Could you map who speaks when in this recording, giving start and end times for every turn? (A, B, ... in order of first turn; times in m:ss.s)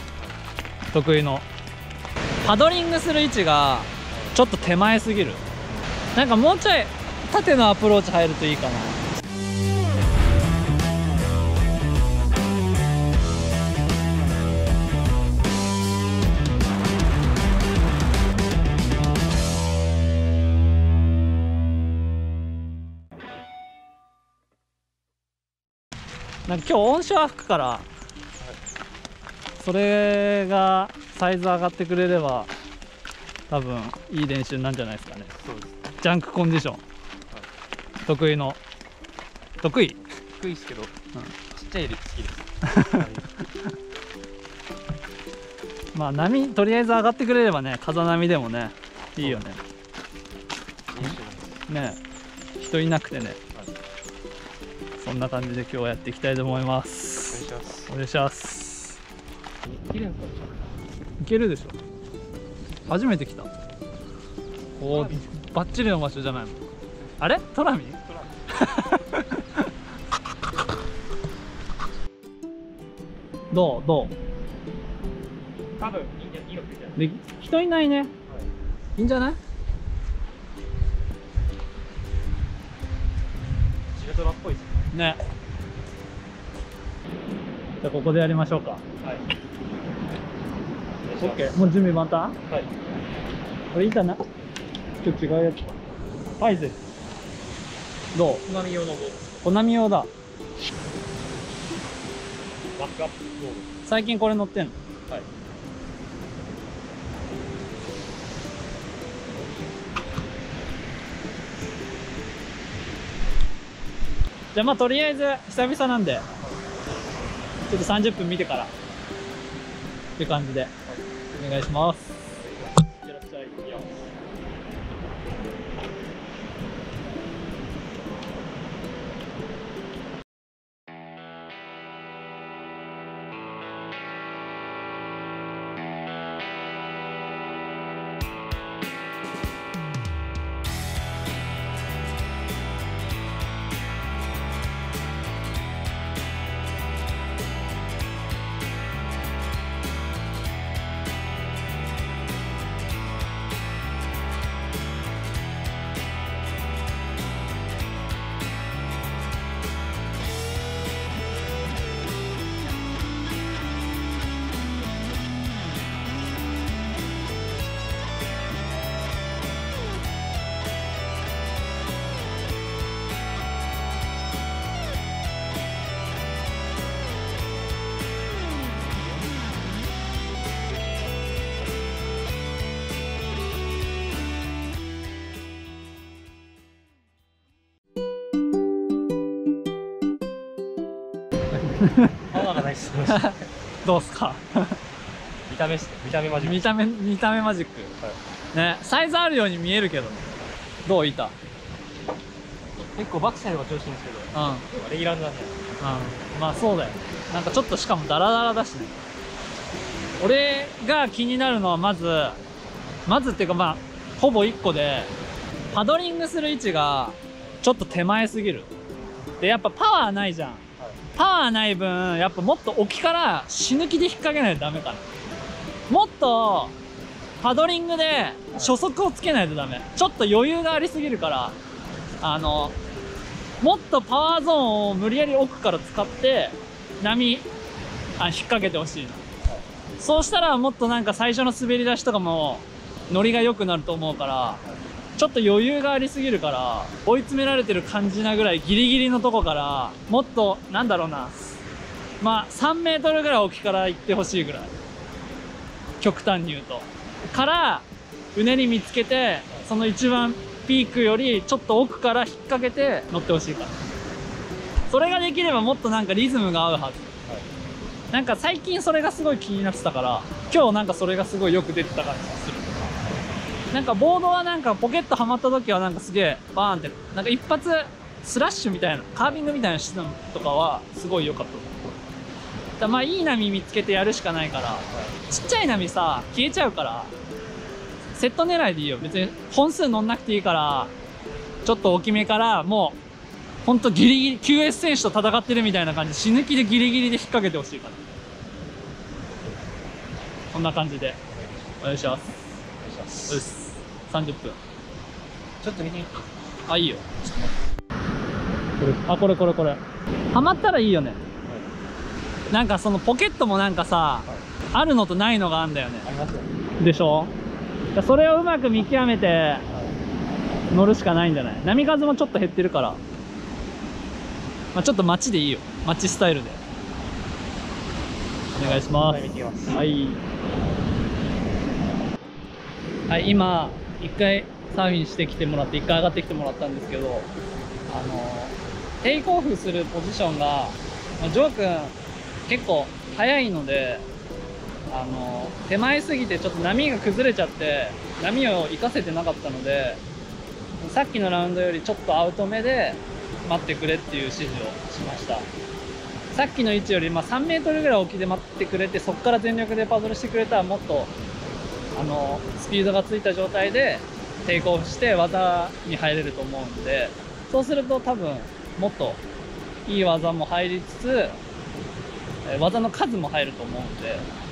0:00.9-0:01.4 A
0:02.4-0:05.4 A
0:04.1-0:04.4 B
0:06.1-0:09.0 A
0:26.5-0:27.8 A
0:29.6-0:32.5 A
0:33.5-0:35.3 A
0:35.4-0:35.8 B
0:36.0-0:36.8 A
0:38.0-0:38.6 A
0:39.6-0:40.0 A
0:40.4-0:40.9 B
0:41.5-0:43.2 B
0:42.6-0:43.0 A
0:45.9-0:49.6 A
0:50.9-0:51.6 B
0:51.7-0:52.0 A
0:52.6-0:53.4 A
0:55.0-0:59.0 A
0:57.3-0:57.9 B
0:59.6-1:00.5 B
1:01.2-1:01.8 A
1:02.9-1:03.5 A
1:04.8-1:06.6 A
1:04.8-1:05.2 B
1:07.2-1:09.7 A
1:08.0-1:08.3 B
1:13.5-1:14.1 A
1:15.8-1:17.0 B
1:17.0-1:18.1 A
1:19.0-1:19.4 A
1:23.9-1:24.8 B
1:24.9-1:25.2 A
1:27.8-1:28.8 A
1:31.0-1:31.6 B
1:31.2-1:32.4 A
1:33.7-1:34.2 A
1:35.0-1:35.7 A
1:36.4-1:36.8 A
1:38.1-1:38.4 A
1:38.4-1:39.2 B
1:39.4-1:40.1 A
1:42.8-1:43.7 B
1:43.8-1:44.7 A
1:49.3-1:49.7 B
1:54.5-1:56.2 A
1:57.7-1:58.7 A
2:00.2-2:00.7 A
2:01.4-2:02.3 A
2:02.4-2:02.8 B
2:03.0-2:03.7 A
3:11.6-3:12.2 A
3:12.3-3:13.3 B
3:13.1-3:14.8 A
3:15.5-3:16.7 B
3:16.4-3:17.9 A
3:18.5-3:20.3 A
3:20.8-3:21.3 A
3:22.9-3:25.6 B
3:24.3-3:24.7 A
3:25.8-3:28.9 A
3:30.2-3:32.4 A
3:33.0-3:35.1 A
3:35.7-3:38.7 A
3:39.4-3:40.6 A
3:41.1-3:45.0 A
3:45.9-3:46.7 A
3:47.4-3:51.6 A
3:52.2-3:52.8 A
3:53.6-3:57.5 A
3:58.2-3:59.2 A
4:00.0-4:04.6 A
4:05.2-4:11.6 A
4:12.2-4:14.7 A
4:16.0-4:23.7 A
4:24.9-4:27.1 A
4:28.1-4:32.9 A
4:33.7-4:41.8 A
4:42.8-4:47.1 A
4:48.1-4:50.9 A
4:51.6-4:53.0 A
4:53.6-4:58.0 A
5:00.5-5:01.2 A
5:01.8-5:02.4 A
5:02.8-5:03.4 B
5:03.3-5:04.6 A
5:05.6-5:06.1 B
5:06.7-5:07.1 A
5:08.8-5:09.8 A
5:10.3-5:11.2 A
5:12.5-5:16.1 A
5:16.0-5:16.5 B
5:16.8-5:17.3 A
5:17.9-5:19.6 A
5:20.7-5:23.0 A
5:24.7-5:26.6 A
5:28.5-5:29.8 B
5:28.5-5:30.2 A
5:33.1-5:37.3 A
5:37.9-5:42.0 A
5:42.5-5:44.0 A
5:44.9-5:50.0 A
5:50.8-5:55.5 A
5:56.3-6:01.1 A
6:02.0-6:09.2 A
6:09.8-6:11.4 A
6:12.4-6:14.2 A